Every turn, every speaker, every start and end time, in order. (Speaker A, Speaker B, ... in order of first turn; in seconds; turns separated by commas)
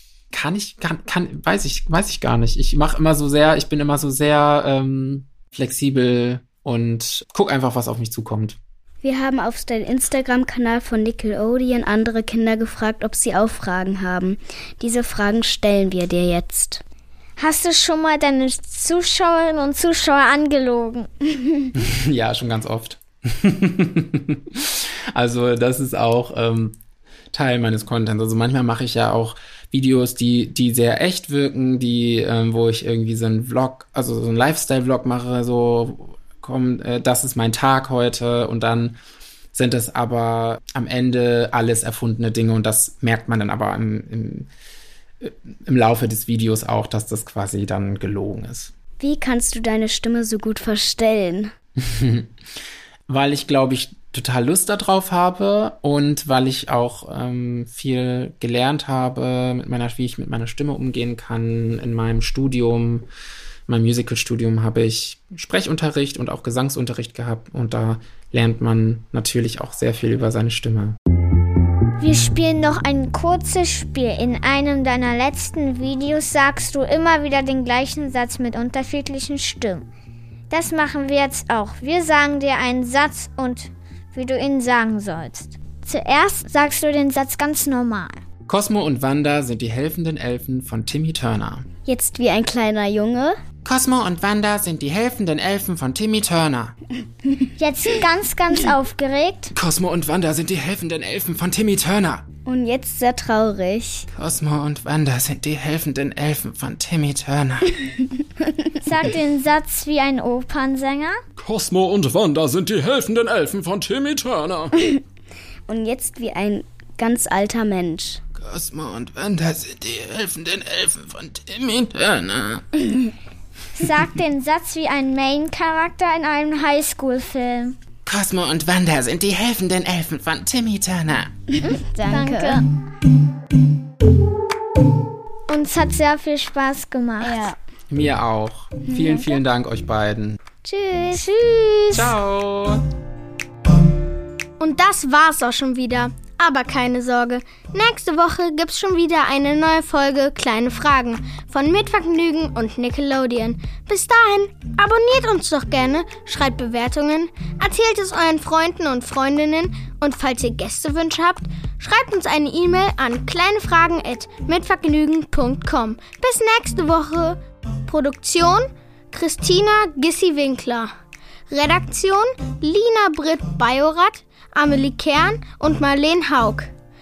Speaker A: 0.3-8.6, Speaker B: 9.0-16.8, Speaker C: 17.4-21.5, Speaker A: 21.8-26.8, Speaker A: 27.3-39.0, Speaker A: 39.5-44.5, Speaker A: 45.2-48.7, Speaker B: 49.0-51.5, Speaker A: 51.8-52.3, Speaker A: 53.1-63.1, Speaker A: 63.7-71.0, Speaker C: 72.0-79.9, Speaker C: 80.5-88.2, Speaker A: 88.5-91.7, Speaker B: 91.8-93.4, Speaker A: 93.6-96.8, Speaker C: 97.6-99.5, Speaker A: 99.5-102.2, Speaker B: 102.4-104.1, Speaker A: 104.1-107.9, Speaker C: 108.8-111.2, Speaker A: 111.4-113.3, Speaker D: 111.5-114.7, Speaker B: 115.7-118.2, Speaker A: 118.4-122.8, Speaker C: 123.8-127.8, Speaker A: 128.1-131.3, Speaker B: 131.6-132.6, Speaker C: 132.0-132.7, Speaker C: 135.5-137.5, Speaker B: 137.2-137.6, Speaker A: 137.9-140.4, Speaker B: 140.7-141.1, Speaker C: 141.0-142.1, Speaker A: 141.9-142.8, Speaker E: 144.6-170.9, Speaker E: 171.5-176.7